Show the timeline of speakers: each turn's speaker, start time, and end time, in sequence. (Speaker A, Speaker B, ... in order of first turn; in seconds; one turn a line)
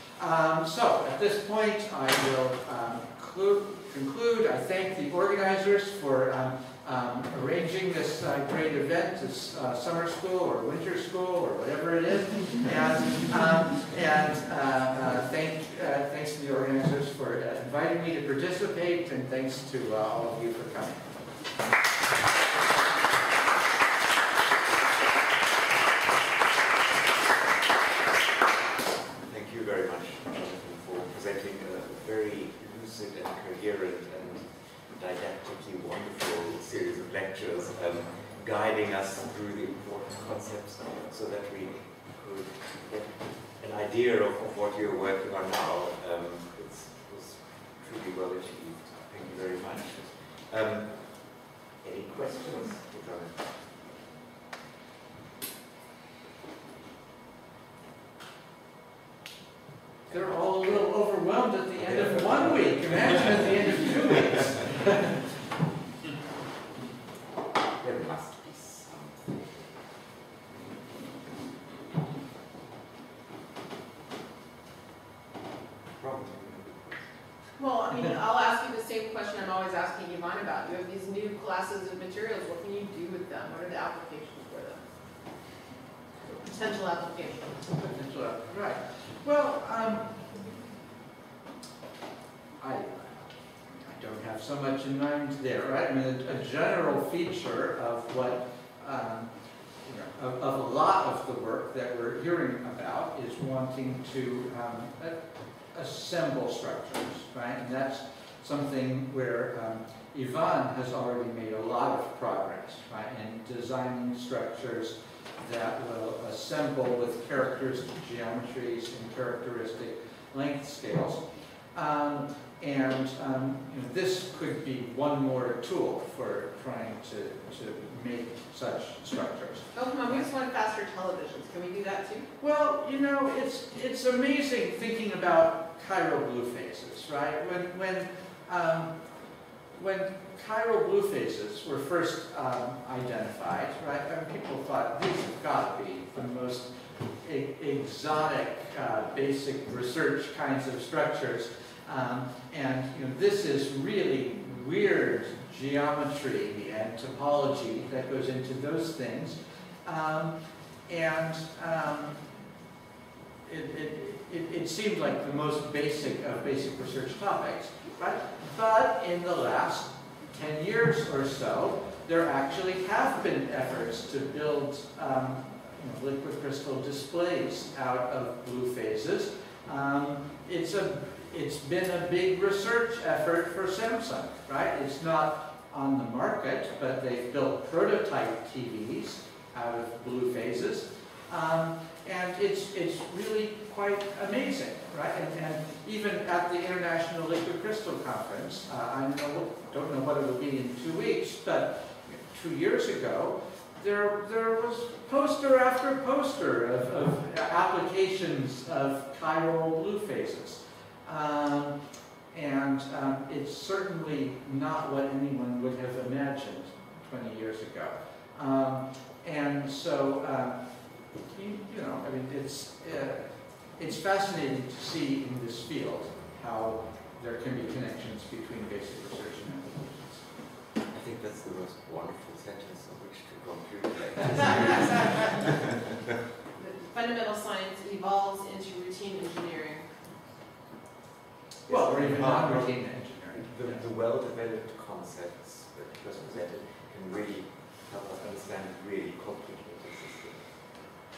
Speaker A: 0.2-21.0
Speaker B: 29.3-51.3
Speaker B: 51.8-53.5
Speaker A: 60.1-65.2
Speaker B: 61.8-64.5
Speaker B: 67.8-69.7
Speaker B: 76.0-77.0
Speaker C: 77.6-84.8
Speaker C: 86.4-87.7
Speaker A: 87.7-90.2
Speaker A: 92.6-99.3
Speaker A: 99.8-105.2
Speaker A: 105.7-121.2
Speaker A: 121.7-129.6
Speaker C: 129.7-132.3
Speaker A: 132.4-138.9
Speaker A: 139.8-146.7
Speaker A: 147.2-160.4
Speaker A: 160.9-162.2
Speaker A: 163.4-211.8
Speaker A: 212.3-220.6
Speaker A: 221.3-230.2
Speaker B: 230.9-236.0
Speaker C: 236.6-239.9
Speaker A: 241.7-243.8
Speaker B: 241.7-242.4
Speaker B: 243.4-250.4